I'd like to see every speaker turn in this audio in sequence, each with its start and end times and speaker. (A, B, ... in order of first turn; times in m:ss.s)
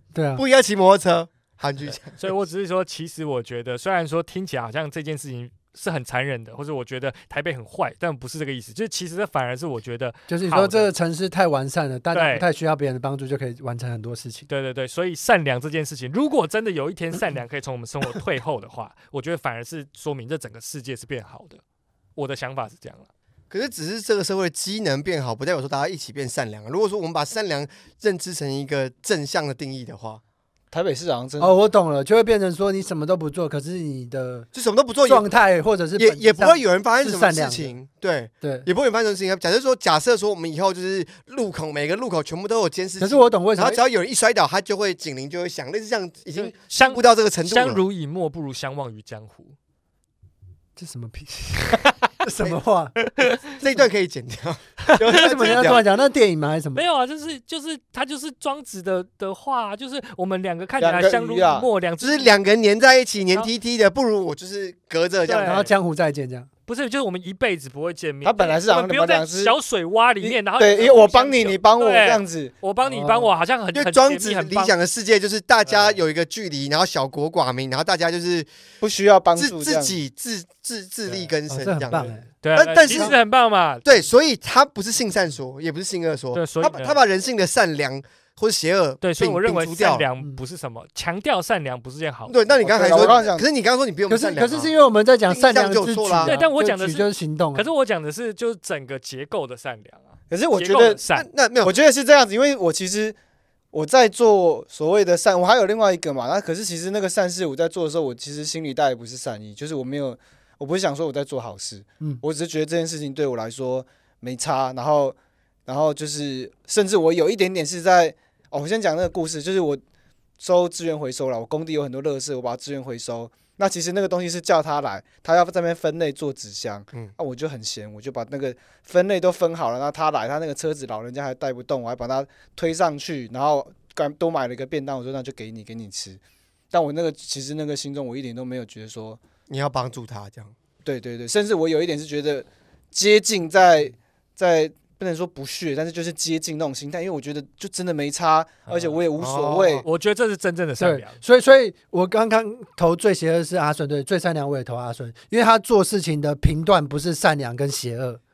0:00.1-0:00.4 A
0:00.4-0:02.2 B
0:02.0-0:10.9 C
0:10.3-0:14.5 A
0:12.1-0:12.4 C
0:14.5-0:21.6 C
0:22.2-0:23.1 C
0:23.5-0:30.2 B
0:30.7-0:31.6 D
0:31.4-0:34.5 A
0:34.5-0:35.3 B
0:35.0-0:37.7 A
0:36.0-0:47.8 B
0:38.4-0:38.7 A
0:43.0-0:43.8 A
0:46.4-0:49.5 C
0:50.8-0:53.0 A
0:53.2-0:53.5 C
0:53.6-0:55.8 B
0:54.9-0:55.8 C
0:55.1-0:56.8 A
0:56.7-1:02.3 C
1:00.8-1:01.7 D
1:02.0-1:05.6 B
1:05.2-1:05.7 C
1:05.3-1:06.5 A
1:06.7-1:14.7 C
1:08.2-1:09.6 D
1:10.2-1:12.5 D
1:12.8-1:13.3 A
1:13.7-1:18.5 B
1:15.7-1:16.0 C
1:18.8-1:20.0 D
1:19.3-1:23.2 B
1:21.1-1:21.3 D
1:21.5-1:22.3 A
1:22.4-1:23.8 C
1:22.9-1:23.1 A
1:23.8-1:30.0 B
1:26.3-1:27.0 C
1:29.0-1:33.1 C
1:32.3-1:34.7 B
1:32.6-1:33.4 D
1:34.1-1:37.7 A
1:35.2-1:36.4 B
1:36.2-1:41.3 C
1:40.3-1:41.0 D
1:41.1-1:41.8 B
1:41.6-1:43.2 D
1:43.7-1:59.8 D
2:00.4-2:16.2 D
2:16.7-2:19.2 D
2:19.5-2:20.5 B
2:20.8-2:29.8 D
2:28.7-2:29.0 C
2:29.2-2:29.8 B
2:29.8-2:31.2 C
2:30.8-2:38.2 A